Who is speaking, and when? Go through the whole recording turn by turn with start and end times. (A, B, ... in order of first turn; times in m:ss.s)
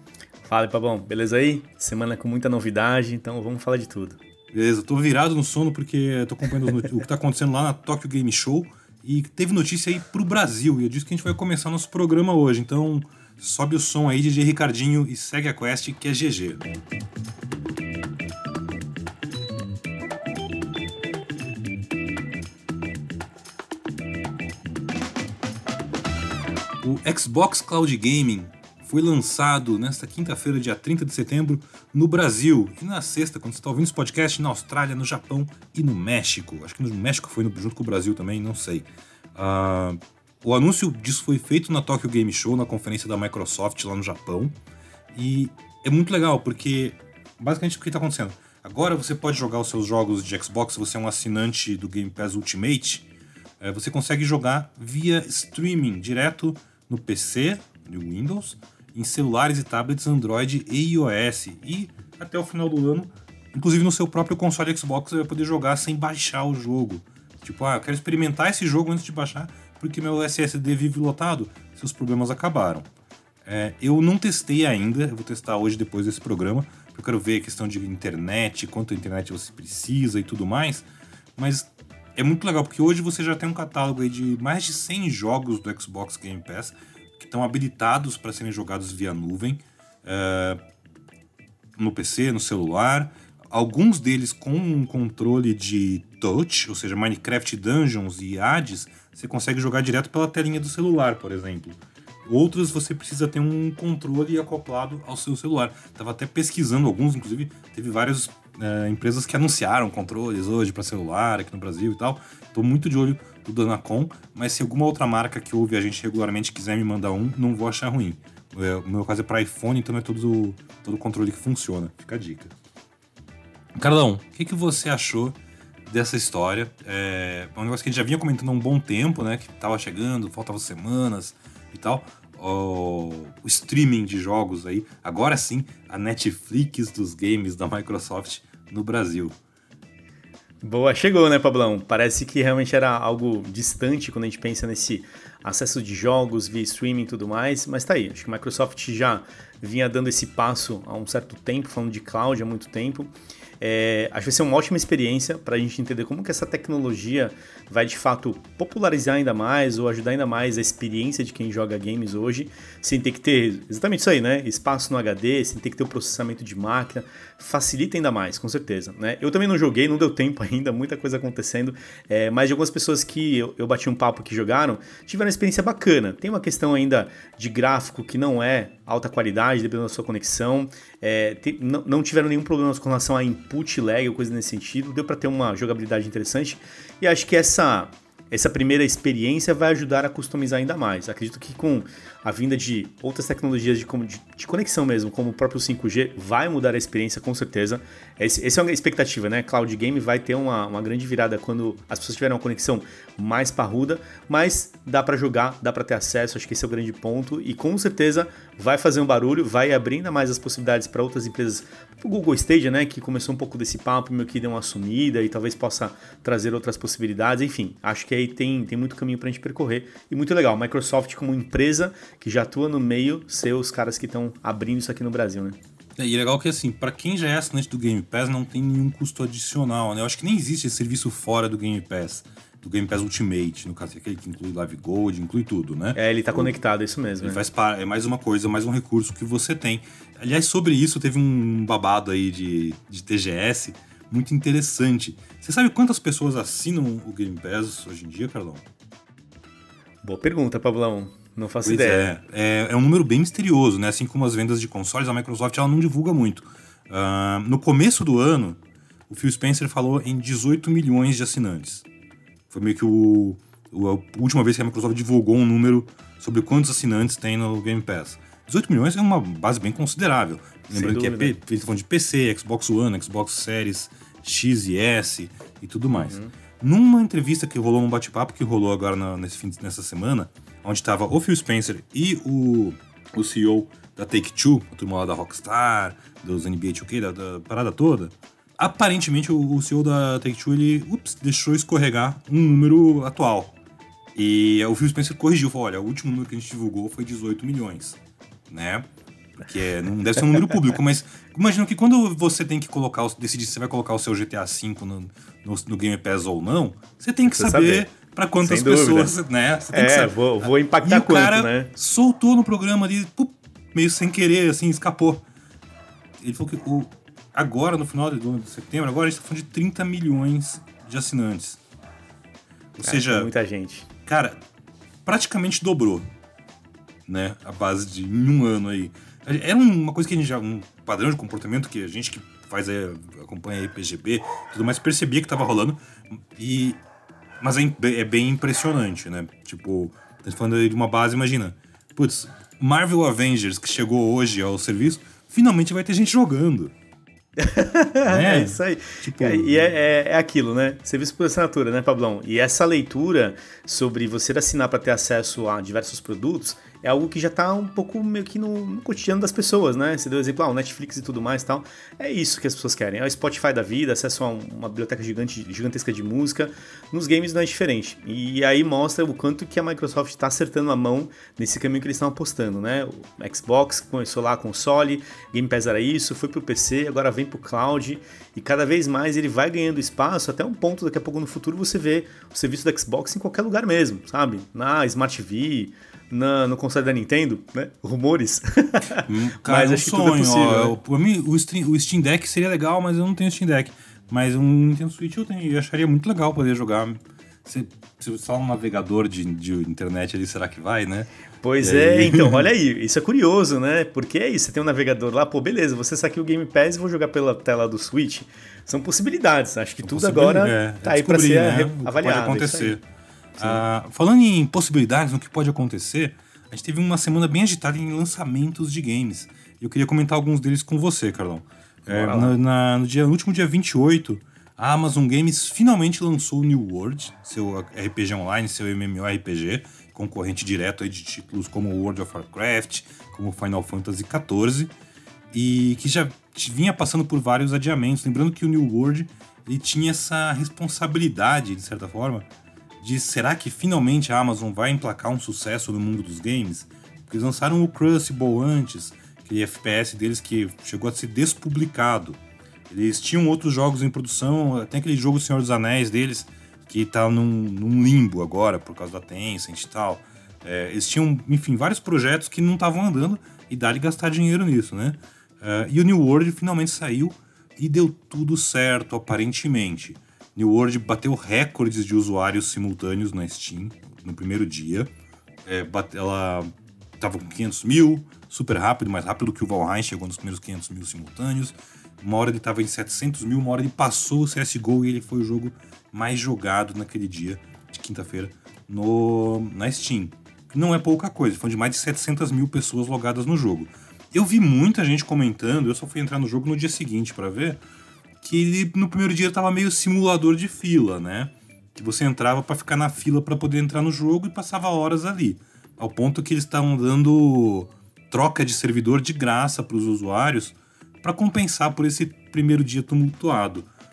0:00.4-0:04.2 A
0:04.5-0:16.6 B
0:26.8-0:44.6 B
0:45.1-0:53.1 B
0:53.6-1:12.9 B
1:13.4-1:30.6 B
1:31.8-2:02.5 B
2:03.8-2:19.3 B
2:20.6-3:45.6 A
3:46.0-3:56.5 B
3:56.0-3:57.4 A
3:57.2-4:08.6 B
4:10.0-4:12.2 A
4:11.6-4:18.6 B
4:19.1-4:21.8 B
4:22.5-4:53.6 B
4:30.7-4:31.3 A
4:35.9-4:36.3 A
4:54.1-4:58.0 B
4:58.5-4:58.9 B
4:59.4-5:15.2 B
5:07.3-5:07.9 A
5:08.4-5:09.2 A
5:09.7-5:11.7 A
5:16.2-5:21.6 B
5:22.8-5:23.3 B
5:22.8-5:23.9 A
5:24.0-5:24.4 B
5:25.0-5:26.1 B
5:27.1-5:36.8 B
5:37.4-5:46.7 B
5:47.4-6:30.8 A
5:48.0-5:49.6 B
6:29.0-6:41.1 B
6:41.4-6:52.8 A
6:41.6-6:42.5 B
6:49.8-6:52.8 B
6:53.4-6:53.6 A
6:53.4-7:14.7 B
7:01.8-7:02.4 A
7:15.3-7:22.3 B
7:22.8-7:54.9 B
7:55.4-8:17.6 B
8:18.2-8:33.7 B